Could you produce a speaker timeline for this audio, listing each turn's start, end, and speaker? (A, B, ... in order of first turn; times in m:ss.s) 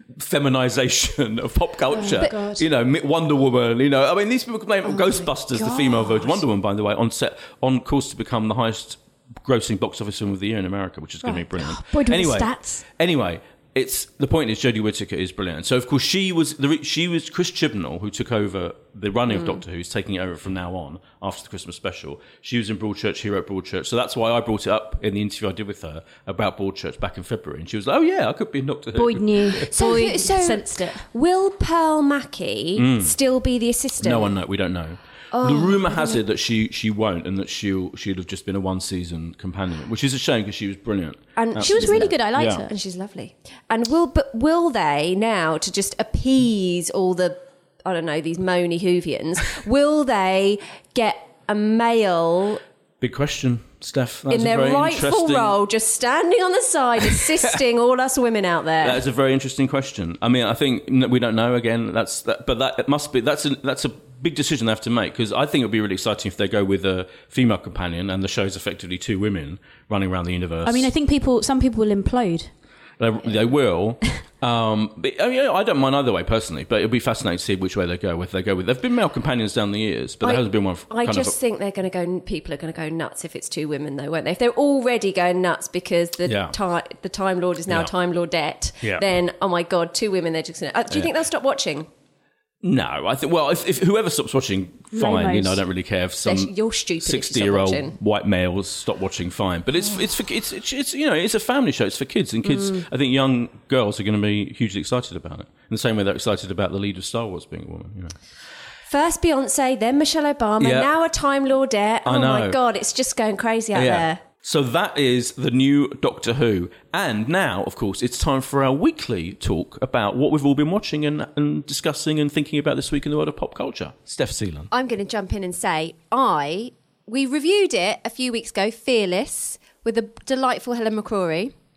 0:00.2-0:29.7 A
0:02.0-0:02.4 B
0:02.0-0:02.6 C
0:04.8-0:06.4 B
0:11.6-0:12.8 C
0:19.3-0:19.6 B
0:29.0-0:31.0 C
0:29.6-0:34.4 B
0:32.8-0:33.2 A
0:34.0-0:42.7 A
0:35.3-0:36.2 B
0:41.4-0:52.6 B
0:41.6-0:42.7 C
0:53.0-0:55.6 A
0:54.3-0:59.0 B
0:58.8-1:10.9 A
1:10.7-1:12.5 C
1:13.0-1:21.4 A
1:20.2-1:31.9 B
1:26.2-1:26.6 A
1:32.6-1:48.2 A
1:34.9-1:35.6 C
1:36.2-1:38.0 B
1:42.5-1:42.8 B
1:48.9-1:54.2 B
1:50.6-1:50.9 A
1:52.0-1:52.6 A
1:53.7-2:04.7 A
2:04.7-2:11.5 B